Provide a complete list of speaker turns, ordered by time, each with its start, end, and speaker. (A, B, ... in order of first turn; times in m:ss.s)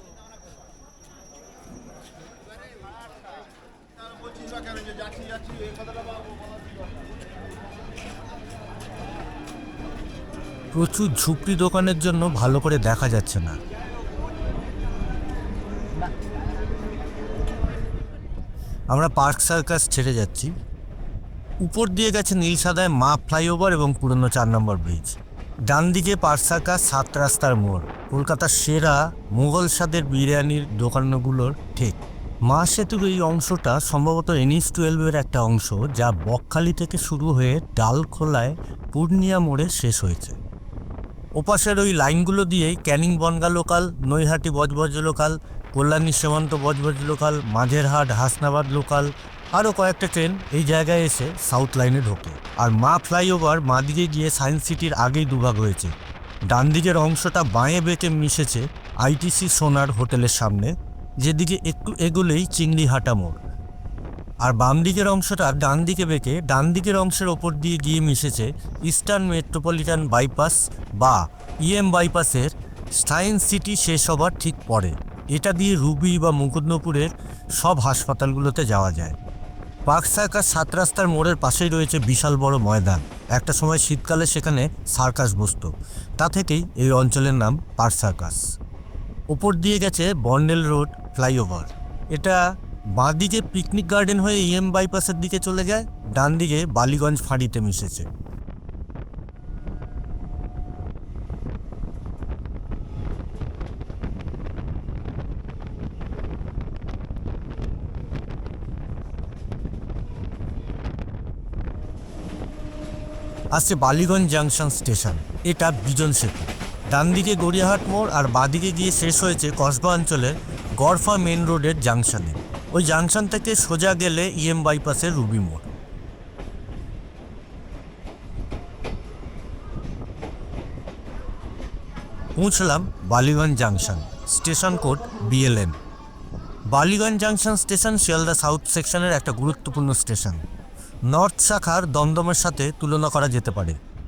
0:10.7-0:13.6 A
0:18.9-0:20.5 A
0:21.6-0:40.4 A
0:41.4-0:55.9 A
0:56.5-1:03.4 A
1:04.4-1:19.2 A
1:19.8-1:28.4 A
1:29.3-1:32.4 A
1:32.9-1:38.1 A
1:53.5-2:05.7 A
2:12.4-2:15.8 A
2:16.7-2:20.4 A
2:21.1-2:23.8 A